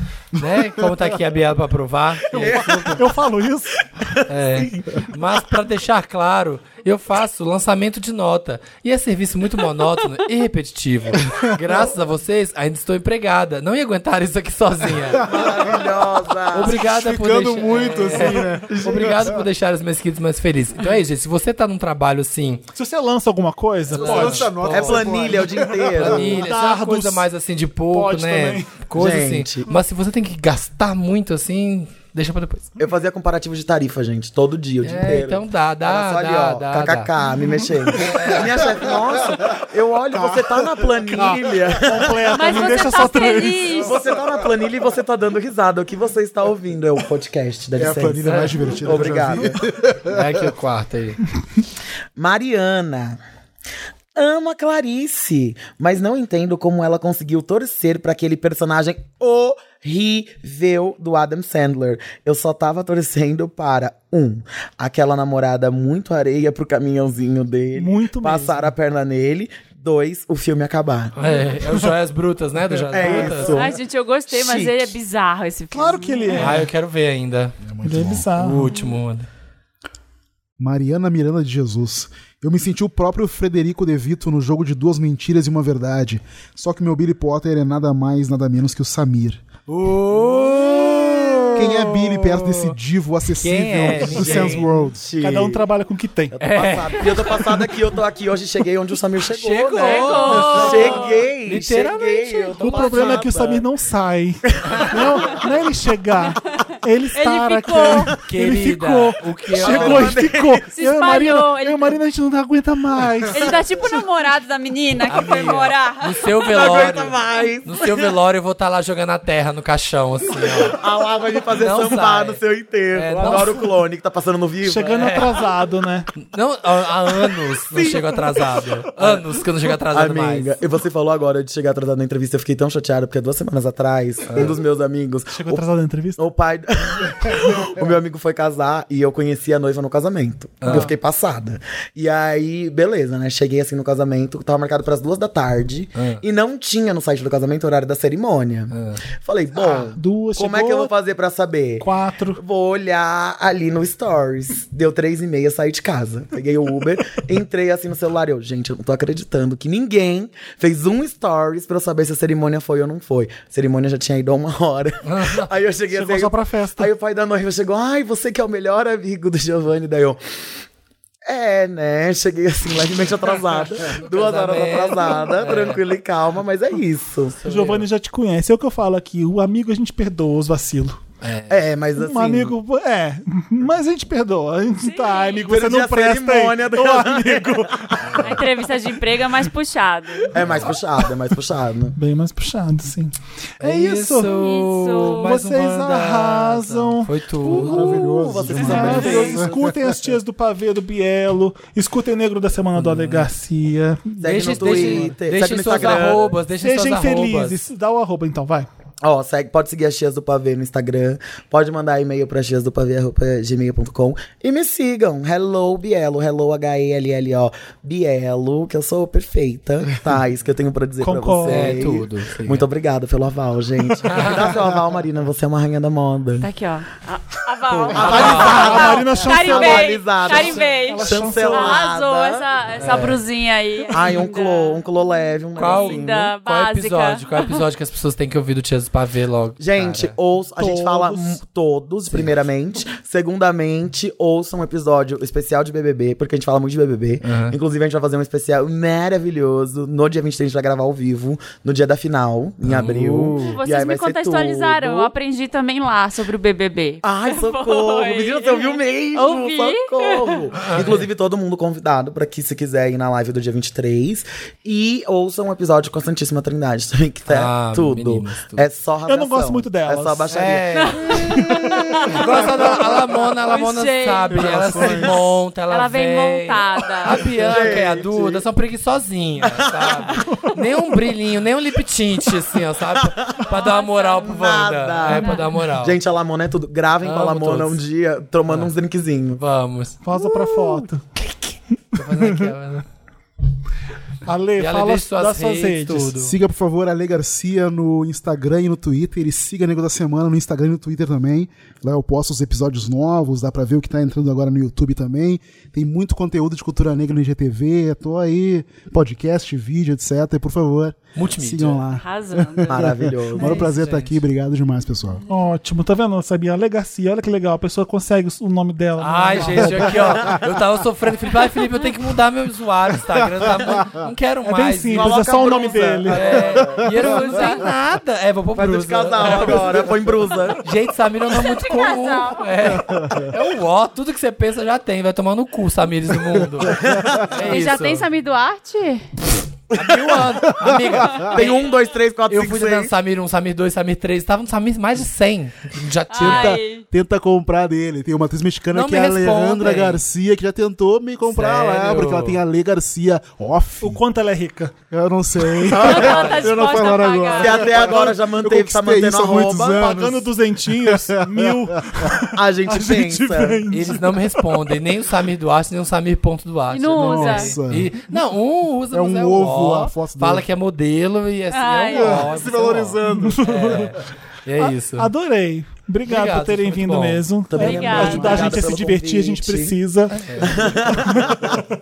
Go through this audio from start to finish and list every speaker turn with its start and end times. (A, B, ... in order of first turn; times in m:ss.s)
0:00.3-0:03.2 A
0:02.4-0:03.0 B
0:02.4-0:04.2 C
0:04.3-0:15.7 A
0:15.2-0:16.8 B
0:16.5-0:22.6 A
0:16.7-0:19.3 D
0:18.7-0:19.2 B
0:22.8-0:24.5 C
0:23.9-0:25.2 A
0:23.9-0:26.4 D
0:24.7-0:26.4 B
0:26.0-0:32.8 A
0:26.3-0:27.2 C
0:27.9-0:28.8 C
0:28.9-0:29.7 B
0:32.8-0:42.7 B
0:34.8-0:37.1 A
0:38.1-0:38.8 A
0:40.2-0:41.0 D
0:41.1-0:43.7 C
0:42.3-0:43.9 E
0:43.7-0:49.5 B
0:47.8-0:50.4 D
0:48.2-0:48.7 A
0:50.1-0:51.2 A
0:52.2-0:53.2 B
0:54.1-1:11.1 B
1:07.7-1:08.6 C
1:11.2-1:13.5 A
1:12.9-1:14.9 B
1:13.0-1:13.4 C
1:13.4-1:16.6 E
1:15.7-1:16.7 C
1:16.3-1:17.6 A
1:17.6-1:18.3 D
1:17.8-1:18.7 C
1:18.4-1:19.3 A
1:20.6-1:29.4 D
1:29.7-1:32.7 A
1:31.6-1:35.0 D
1:33.4-1:34.6 A
1:34.2-1:34.6 C
1:34.9-1:35.6 B
1:35.2-1:36.4 C
1:36.3-1:43.6 B
1:36.4-1:37.3 A
1:37.0-1:37.3 E
1:39.3-1:43.3 A
1:39.7-1:41.2 E
1:42.6-1:53.6 C
1:44.7-1:45.3 B
1:47.1-1:48.2 E
1:48.1-1:50.1 A
1:49.6-1:50.6 B
1:50.7-1:52.0 E
1:53.3-1:56.3 E
1:55.1-2:00.8 A
1:56.5-1:58.1 B
2:00.7-2:05.2 B
2:01.6-2:02.4 A
2:02.9-2:03.7 A
2:04.6-2:06.1 C
2:05.0-2:05.4 A
2:06.2-2:10.5 A
2:07.7-2:08.2 B
2:09.9-2:15.6 B
2:14.3-2:14.5 A
2:15.3-2:16.2 C
2:16.2-2:50.2 B
2:20.6-2:20.9 A
2:20.6-2:20.9 C
2:26.0-2:26.2 A
2:28.7-2:29.0 A
2:29.5-2:30.9 C
2:31.8-2:32.4 C
2:45.0-2:45.5 A
2:45.9-2:46.9 C
2:51.3-2:57.4 B
2:53.8-2:55.8 A
2:57.4-2:57.8 A
2:57.4-3:01.0 C
3:01.2-3:01.7 A
3:01.5-3:02.5 B
3:02.0-3:08.2 C
3:04.8-3:05.5 E
3:05.4-3:08.2 B
3:08.0-3:08.4 A
3:08.2-3:10.4 E
3:10.3-3:12.0 B
3:10.4-3:10.8 A
3:12.0-3:14.3 C
3:13.6-3:18.0 A
3:14.2-3:15.3 E
3:15.2-3:17.1 C
3:17.4-3:19.6 B
3:17.5-3:19.8 D
3:18.6-3:25.0 C
3:22.8-3:23.3 A
3:24.2-3:26.2 B
3:24.2-3:27.6 A
3:24.8-3:25.1 D
3:25.7-3:28.7 C
3:29.0-3:46.5 B
3:41.0-3:41.8 C
3:41.5-3:42.6 A
3:44.1-3:44.4 A
3:46.4-3:54.8 E
3:47.7-3:52.4 B
3:48.0-3:49.0 A
3:48.0-3:51.8 C
3:52.8-3:53.2 A
3:53.9-3:56.3 B
3:55.6-4:00.1 A
3:55.7-3:57.6 E
3:59.6-4:15.1 B
4:00.6-4:01.4 C
4:07.2-4:07.6 A
4:12.6-4:13.6 A
4:13.4-4:20.4 E
4:17.0-4:30.9 B
4:20.6-4:21.1 A
4:27.3-4:28.6 A
4:29.1-4:30.3 C
4:30.3-4:31.3 A
4:30.7-4:32.8 E
4:32.1-4:46.0 A
4:33.5-4:37.8 E
4:34.3-4:35.2 D
4:37.4-4:38.4 B
4:39.4-4:40.2 B
4:42.9-4:43.5 B
4:43.4-4:44.3 E
4:44.2-4:49.4 B
4:45.1-4:45.4 E
4:47.0-4:47.8 A
4:48.5-4:48.7 A
4:49.4-4:50.0 A
4:50.0-4:51.4 C
4:51.9-4:52.8 A
4:51.9-4:52.5 C
4:54.2-4:56.2 C
4:54.6-4:56.4 A
4:56.2-5:15.2 D
5:11.2-5:11.8 A
5:11.9-5:13.7 E
5:12.7-5:13.7 B
5:13.5-5:14.2 A
5:15.3-5:20.4 C
5:19.0-5:25.4 A
5:24.4-5:26.4 C
5:24.9-5:27.1 B
5:26.0-5:30.0 A
5:27.0-5:27.7 E
5:28.5-5:30.6 B
5:30.6-5:38.1 A
5:31.3-5:32.5 E
5:32.7-5:33.3 D
5:36.7-5:37.2 B
5:36.8-5:37.2 D
5:37.4-5:39.1 E
5:39.7-5:40.3 B
5:39.7-5:41.7 A
5:40.6-5:41.2 D
5:41.2-5:42.9 B
5:42.3-5:46.6 A
5:46.1-5:46.8 E
5:46.2-5:54.0 D
5:48.7-5:50.0 A
5:51.3-5:52.4 A
5:53.8-5:54.7 C
5:54.9-6:02.1 D
5:55.7-5:56.1 B
5:55.8-5:57.9 E
5:55.8-5:56.9 A
5:57.4-5:59.9 B
5:59.6-6:04.8 C
6:02.3-6:03.6 B
6:03.7-6:15.1 A
6:06.7-6:07.5 E
6:06.9-6:07.9 D
6:08.9-6:10.4 D
6:11.5-6:12.5 E
6:11.9-6:13.9 D
6:13.0-6:14.0 C
6:14.6-6:21.5 C
6:16.0-6:18.0 A
6:17.5-6:19.8 B
6:17.6-6:18.6 E
6:18.0-6:18.6 D
6:20.2-6:20.8 A
6:20.4-6:21.6 B